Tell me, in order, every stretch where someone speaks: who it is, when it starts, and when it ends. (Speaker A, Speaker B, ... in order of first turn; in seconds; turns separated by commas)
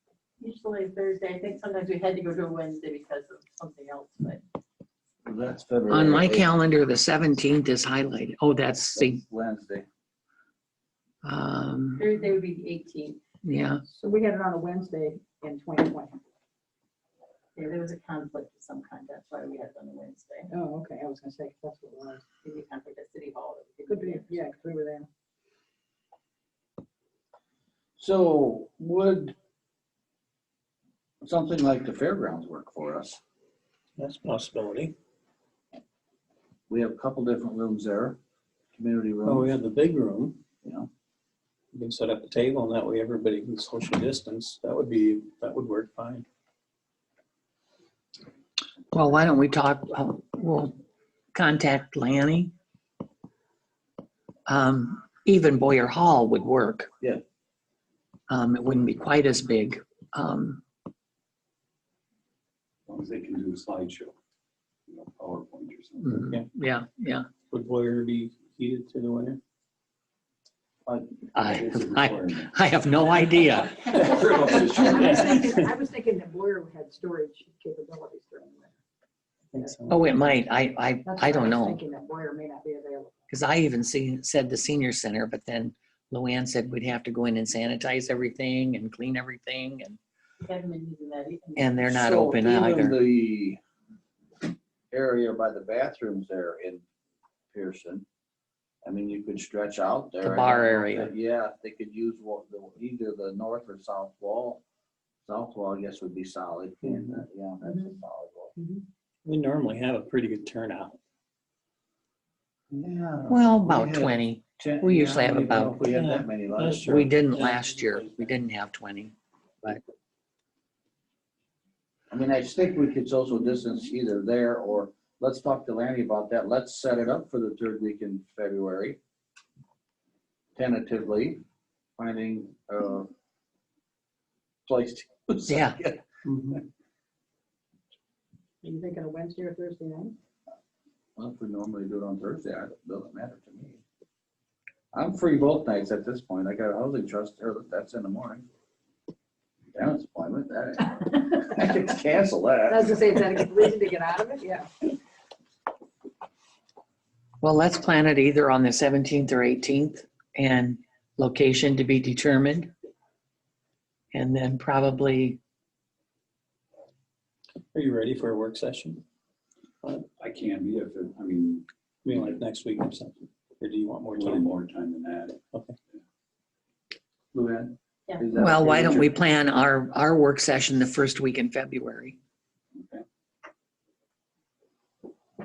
Speaker A: 0.4-4.4, Speaker B: 5.2-6.5, Speaker C: 5.9-9.2, Speaker B: 8.9-9.8, Speaker C: 11.2-12.0, Speaker A: 12.0-13.2, Speaker C: 13.4-13.8, Speaker D: 13.9-16.2, Speaker A: 17.6-20.5, Speaker D: 20.5-22.3, Speaker A: 22.4-24.4, Speaker D: 23.9-25.1, Speaker B: 28.0-29.3, Speaker B: 31.2-33.2, Speaker E: 34.0-34.9, Speaker B: 36.7-38.2, Speaker B: 38.8-39.5, Speaker E: 39.2-40.4, Speaker B: 40.6-40.9, Speaker E: 41.7-46.2, Speaker C: 48.9-50.7, Speaker C: 51.3-52.5, Speaker C: 54.5-56.9, Speaker C: 58.3-60.6, Speaker F: 62.9-64.1, Speaker F: 64.9-66.2, Speaker C: 66.0-67.3, Speaker E: 67.5-69.4, Speaker F: 70.9-72.7, Speaker C: 71.3-74.2, Speaker F: 73.2-75.7, Speaker D: 74.1-78.8, Speaker E: 75.0-75.5, Speaker E: 79.5-80.1, Speaker C: 79.9-81.8, Speaker D: 81.0-83.2, Speaker C: 83.3-90.0, Speaker A: 90.4-91.8, Speaker C: 91.6-93.0, Speaker B: 91.8-93.6, Speaker B: 94.9-96.8, Speaker B: 97.5-98.0, Speaker B: 98.8-104.6, Speaker C: 100.2-101.1, Speaker B: 105.2-108.5, Speaker E: 106.8-107.2, Speaker E: 109.2-111.0, Speaker B: 112.7-117.0, Speaker C: 113.3-115.8, Speaker E: 115.9-118.3, Speaker C: 116.8-119.8, Speaker B: 122.1-129.0, Speaker B: 130.6-131.4, Speaker B: 132.0-133.1, Speaker B: 134.7-136.0, Speaker C: 135.5-135.8, Speaker E: 136.2-136.6, Speaker D: 138.6-140.1, Speaker B: 141.2-143.8, Speaker B: 144.9-148.4, Speaker B: 149.7-153.2, Speaker D: 152.7-154.8, Speaker C: 157.4-162.7, Speaker C: 164.1-165.4, Speaker E: 167.7-169.0, Speaker F: 170.1-172.4, Speaker E: 172.0-174.5, Speaker F: 174.1-175.4, Speaker B: 177.3-179.1, Speaker C: 178.3-182.2, Speaker F: 182.7-183.0